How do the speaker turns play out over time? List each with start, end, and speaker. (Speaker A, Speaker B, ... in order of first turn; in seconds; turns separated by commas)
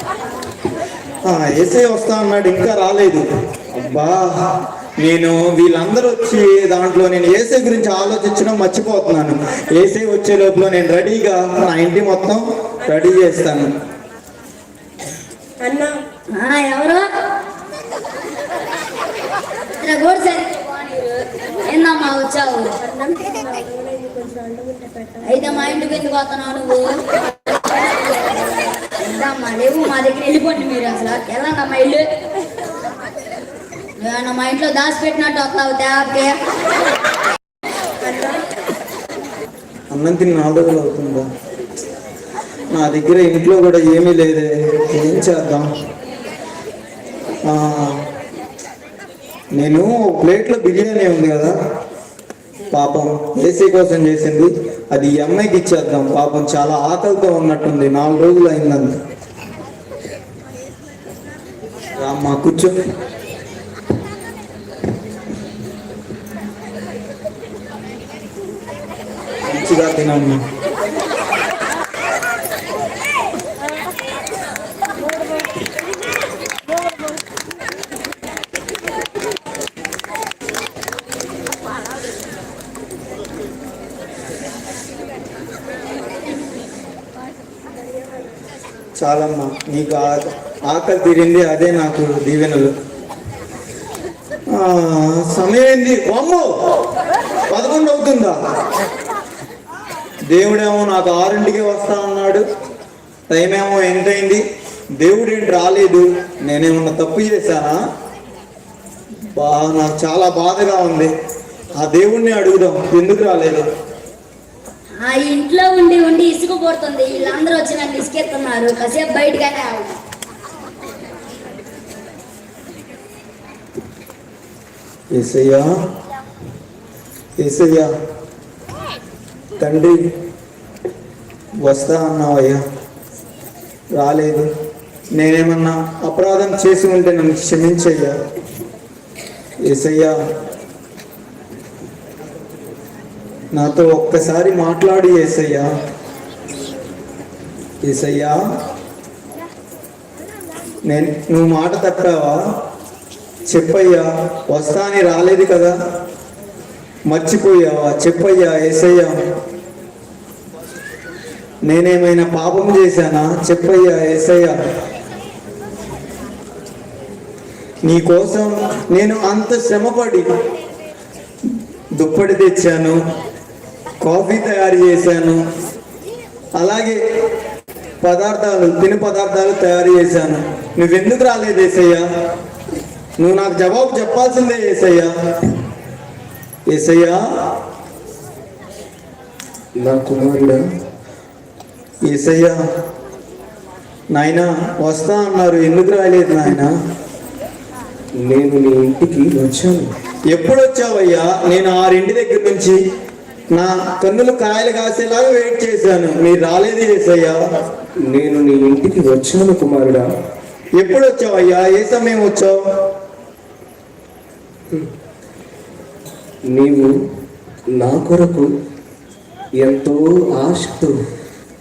Speaker A: 1.2-13.7, Speaker B: 15.6-16.0, Speaker C: 16.3-17.1, Speaker C: 19.7-22.7, Speaker B: 22.8-25.9, Speaker C: 25.3-26.9, Speaker C: 29.0-32.0, Speaker C: 34.0-36.4, Speaker A: 39.9-41.3, Speaker A: 42.7-45.7, Speaker A: 47.4-48.0, Speaker A: 49.5-51.6, Speaker A: 52.7-59.0, Speaker A: 62.0-62.7, Speaker A: 69.5-70.4, Speaker A: 89.0-92.7, Speaker A: 94.5-96.5, Speaker A: 97.5-98.4, Speaker A: 100.3-102.4, Speaker A: 103.3-104.4, Speaker A: 105.0-107.8, Speaker A: 109.3-111.1, Speaker A: 111.7-113.7, Speaker C: 115.0-119.9, Speaker A: 125.1-125.7, Speaker A: 127.4-127.9, Speaker A: 129.6-130.0, Speaker A: 131.6-132.6, Speaker A: 133.9-134.5, Speaker A: 135.2-138.2, Speaker A: 139.6-140.2, Speaker A: 143.5-145.7, Speaker A: 147.8-148.4, Speaker A: 150.8-152.4, Speaker A: 153.5-155.8, Speaker A: 157.1-159.2, Speaker A: 161.7-164.6, Speaker A: 167.8-170.3, Speaker A: 172.0-173.0, Speaker A: 174.0-175.4, Speaker A: 176.6-177.0, Speaker A: 178.0-182.1, Speaker A: 183.2-185.6, Speaker A: 186.7-187.2, Speaker D: 189.8-190.6, Speaker A: 192.1-192.6, Speaker A: 194.1-196.8, Speaker D: 198.2-199.9, Speaker A: 200.3-202.8, Speaker A: 203.5-207.4, Speaker D: 208.1-210.1, Speaker A: 210.8-212.6, Speaker D: 216.5-216.9, Speaker D: 217.8-218.5, Speaker D: 219.6-220.9